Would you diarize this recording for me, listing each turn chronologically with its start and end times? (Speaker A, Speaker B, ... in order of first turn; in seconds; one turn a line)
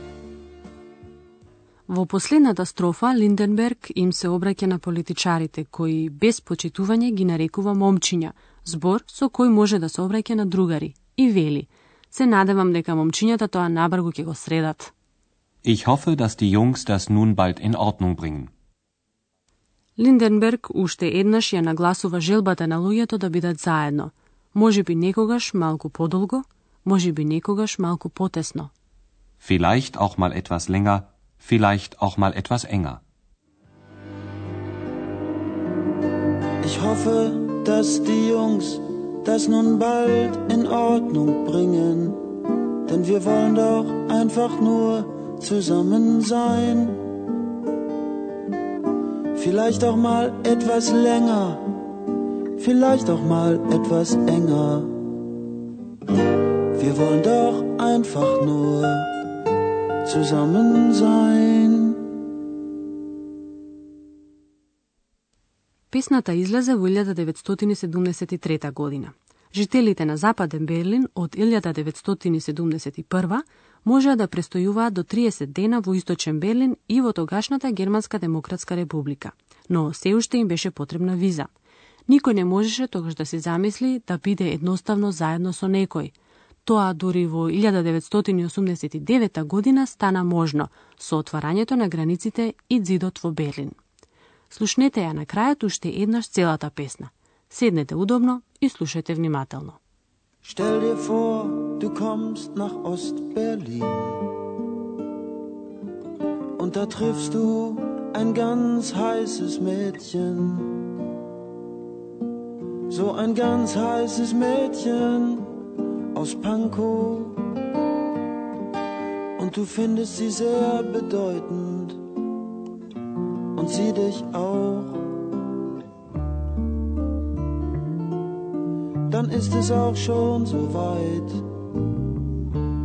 Speaker A: 1.9-14.9
Speaker B: 15.6-18.5
Speaker A: 20.0-28.7
Speaker B: 29.4-33.0
Speaker C: 36.6-42.2
Speaker C: 42.9-47.0
Speaker C: 49.3-51.8
Speaker C: 52.6-54.9
Speaker C: 56.8-59.1
Speaker C: 60.0-62.1
Speaker A: 65.9-81.5
Speaker A: 82.1-86.1
Speaker A: 86.6-93.8
Speaker A: 94.5-99.8
Speaker C: 100.4-104.3
Speaker C: 106.6-110.8
Speaker C: 112.9-115.5
Speaker C: 116.1-117.4
Speaker C: 119.4-122.0
Speaker C: 123.5-125.2
Speaker C: 129.1-131.4